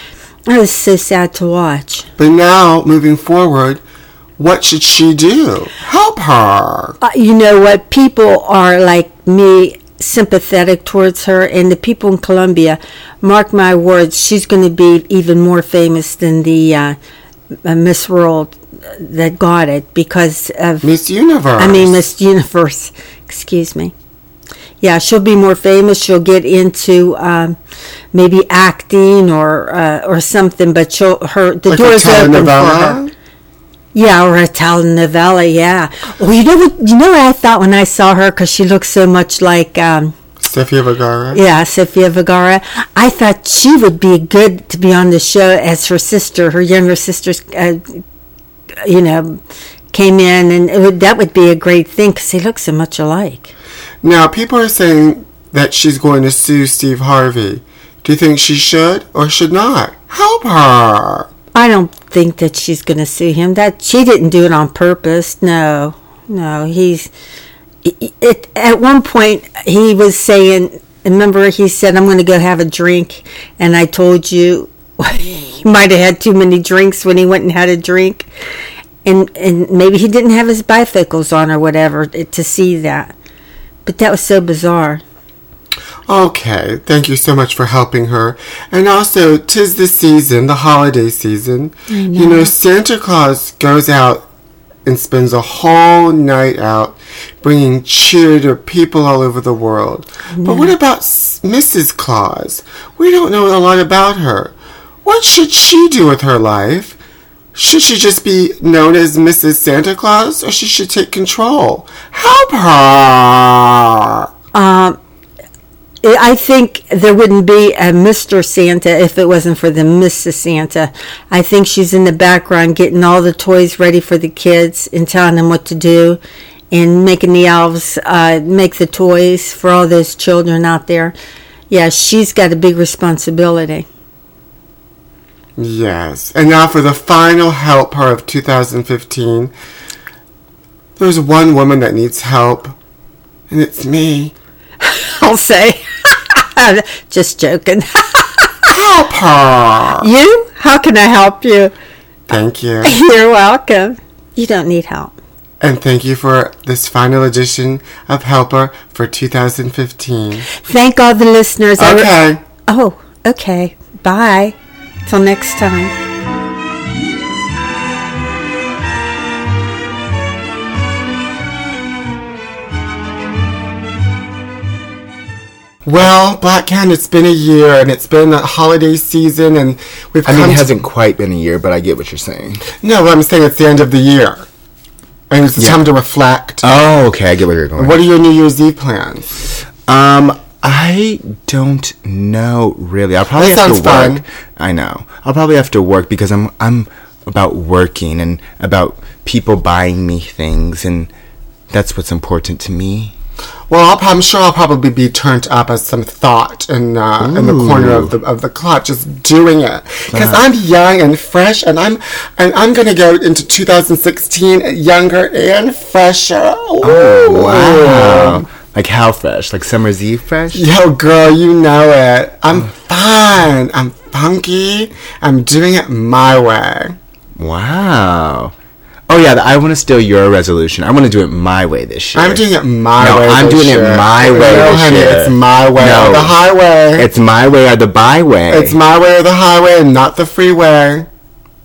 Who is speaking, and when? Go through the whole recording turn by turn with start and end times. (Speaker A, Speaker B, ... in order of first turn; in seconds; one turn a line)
Speaker A: 0.5-2.0
Speaker B: 2.2-3.8
Speaker B: 4.4-7.0
Speaker A: 7.0-17.0
Speaker A: 17.6-20.9
Speaker B: 20.8-22.1
Speaker A: 21.6-23.9
Speaker A: 24.8-27.6
Speaker A: 28.1-33.0
Speaker B: 31.7-33.1
Speaker A: 33.9-40.1
Speaker B: 40.4-41.4
Speaker A: 41.3-48.0
Speaker A: 48.8-49.4
Speaker A: 49.9-53.5
Speaker B: 54.0-61.3
Speaker A: 61.5-67.1
Speaker A: 67.8-78.3
Speaker A: 79.0-83.1
Speaker A: 83.8-85.0
Speaker B: 86.1-94.3
Speaker A: 91.9-92.5
Speaker B: 94.8-107.0
Speaker A: 100.3-100.7
Speaker B: 107.5-114.2
Speaker A: 114.5-115.0
Speaker A: 116.0-126.2
Speaker A: 126.7-131.1
Speaker A: 131.7-133.9
Speaker B: 135.6-139.5
Speaker B: 141.0-142.8
Speaker B: 143.5-144.3
Speaker A: 144.8-148.5
Speaker B: 148.7-150.1
Speaker A: 150.0-151.7
Speaker B: 152.3-153.0
Speaker A: 152.8-155.1
Speaker B: 155.6-160.5
Speaker A: 160.6-162.1
Speaker B: 161.8-162.4
Speaker A: 162.7-164.6
Speaker A: 165.1-165.9
Speaker B: 175.9-180.7
Speaker C: 180.2-182.7
Speaker B: 182.8-184.5
Speaker B: 185.3-186.6
Speaker C: 185.6-185.8
Speaker C: 186.6-188.0
Speaker B: 187.8-189.3
Speaker C: 189.9-201.1
Speaker B: 193.4-194.2
Speaker C: 201.7-203.1
Speaker B: 203.7-218.5
Speaker C: 207.2-208.1
Speaker C: 210.1-210.4
Speaker C: 216.8-220.7
Speaker B: 220.5-227.0
Speaker C: 227.4-228.5
Speaker C: 229.1-232.4
Speaker B: 232.2-237.1
Speaker C: 233.0-236.4
Speaker C: 236.9-238.8
Speaker B: 238.5-241.1